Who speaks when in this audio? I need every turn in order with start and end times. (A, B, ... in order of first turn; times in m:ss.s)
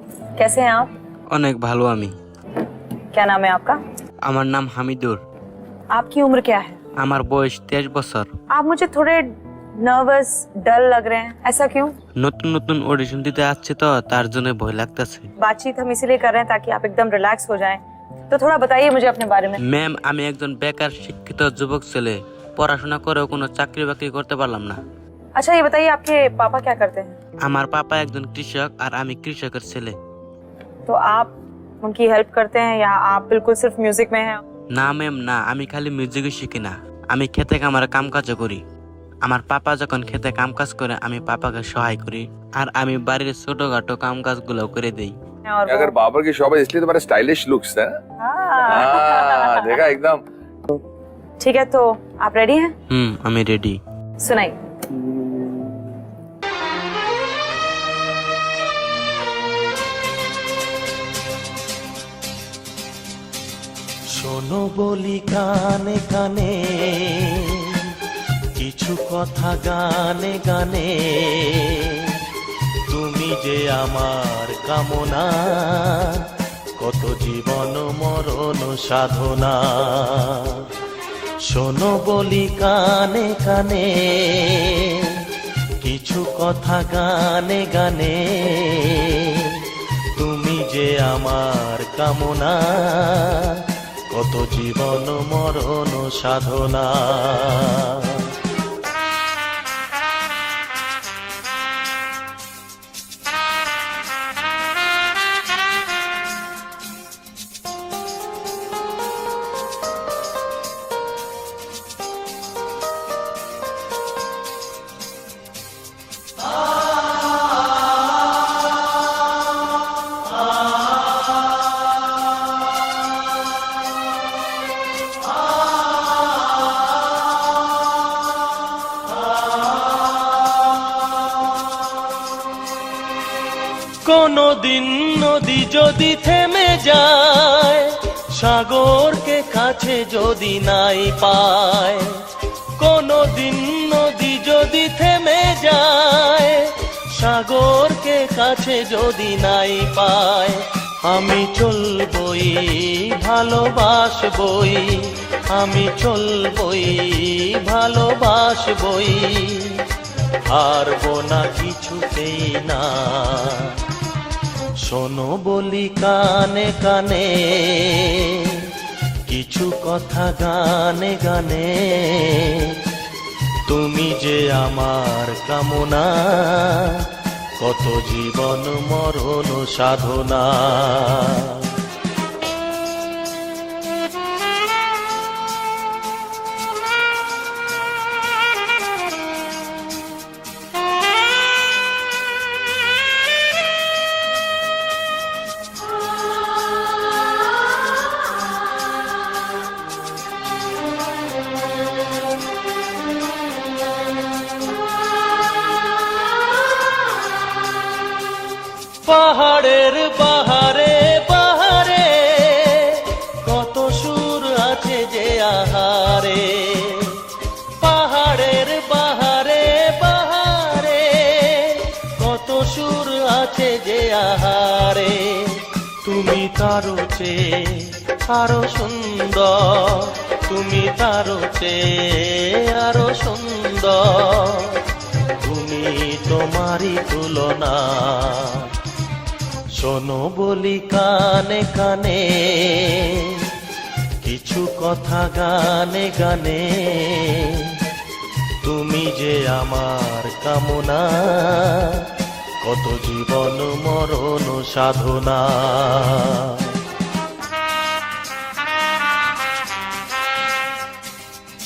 0:00.4-0:00.9 A
0:01.3-0:02.1 B
0:03.1-0:03.8 A
0:04.2-0:05.2 B
0:05.9-0:06.8 A
0:07.0-0:08.3 B
0:08.5-0:09.3 A
0:09.8-0:11.9 A
0:12.2-0:15.3 B
0:15.4-0:19.6 A
0:19.6-0:24.8 B
0:25.4-0:27.2 A
0:27.4-0:30.0 B
0:30.8-0:34.4 A
0:34.7-0:38.6 B
0:39.2-0:45.2 B
0:45.4-0:46.0 A
0:45.7-0:48.0 C
0:48.2-0:49.8 A
0:48.6-0:50.2 C
0:51.4-0:52.7 A
0:52.9-0:53.8 B
0:54.2-0:54.5 A
1:04.1-1:08.0 D
1:08.6-1:12.2 D
1:12.9-1:20.7 D
1:21.4-1:25.3 D
1:25.8-1:38.4 D
2:14.0-2:22.2 D
2:22.8-2:39.8 D
2:40.5-2:43.8 D
2:44.8-2:48.7 D
2:49.3-2:52.8 D
2:53.7-3:01.8 D
3:29.0-3:37.3 D
3:37.8-3:54.8 D
3:55.4-3:58.7 D
3:59.7-4:03.5 D
4:04.2-4:07.8 D
4:08.6-4:16.8 D